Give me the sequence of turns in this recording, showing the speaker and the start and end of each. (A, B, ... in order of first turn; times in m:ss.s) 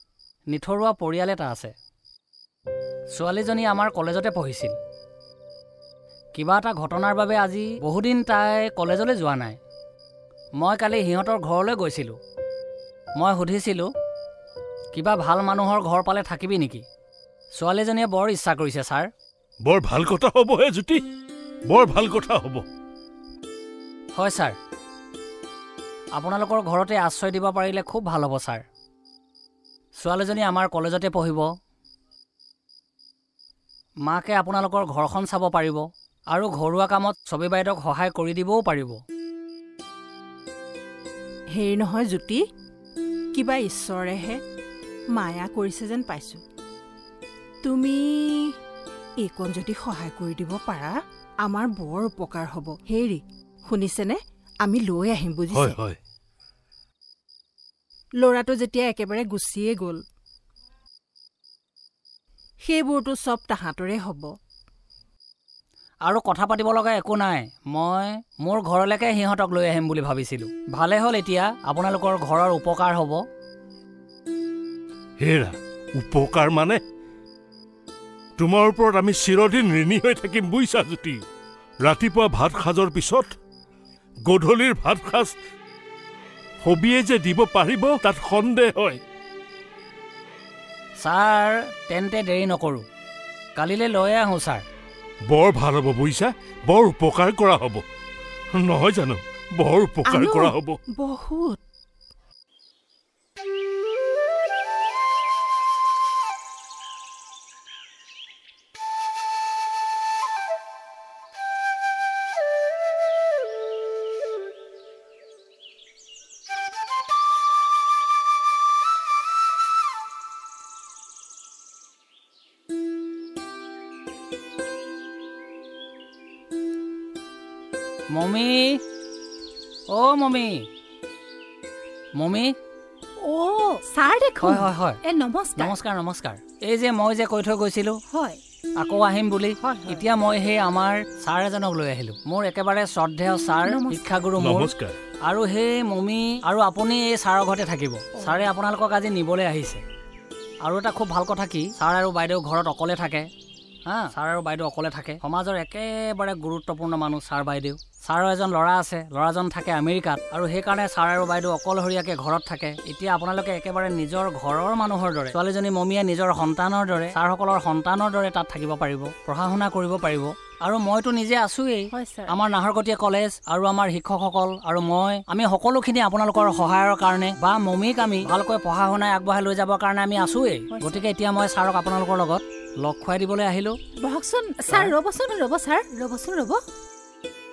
0:00.5-0:01.7 A
0:03.1-0:04.8 A
0:06.4-0:09.6 A
0:10.6-0:12.2 A
0:13.2-0:13.9 A
0:14.9-0:16.8 A
0:17.6-0:19.1 A
0:19.6-0:21.0 B
0:21.7-0:22.6 B
0:24.2-0:24.6 A
0:26.2-0:28.6 A
0:30.0-0:31.4 A
0:34.1-0:39.0 A
0:41.6-0:42.4 C
0:43.3-0:44.4 C
0:45.1-0:46.4 C
0:47.6-0:48.5 C
0:49.2-0:50.9 C
0:51.4-0:55.8 C
0:55.5-0:56.0 B
0:58.2-1:00.0 C
1:02.6-1:04.3 C
1:06.0-1:13.2 A
1:15.2-1:16.8 B
1:18.4-1:21.2 B
1:21.8-1:23.3 B
1:24.3-1:25.3 B
1:26.6-1:29.0 B
1:31.0-1:32.8 A
1:33.6-1:34.6 A
1:35.3-1:37.8 B
1:38.6-1:40.8 B
1:40.0-1:41.6 C
2:08.1-2:08.8 A
2:09.9-2:10.6 A
2:12.2-2:12.5 A
2:13.2-2:15.7 D
2:14.4-2:15.0 A
2:15.6-2:18.0 A
2:18.1-2:18.4 D
2:18.8-2:24.7 A
2:19.6-2:20.0 D
2:23.6-2:24.2 D
2:24.4-2:24.9 B
2:25.2-2:29.8 A
2:28.2-2:28.5 D
2:30.6-2:33.3 A
2:33.9-3:03.8 A
2:51.9-2:52.3 D
3:00.7-3:01.0 D
3:04.0-3:06.6 D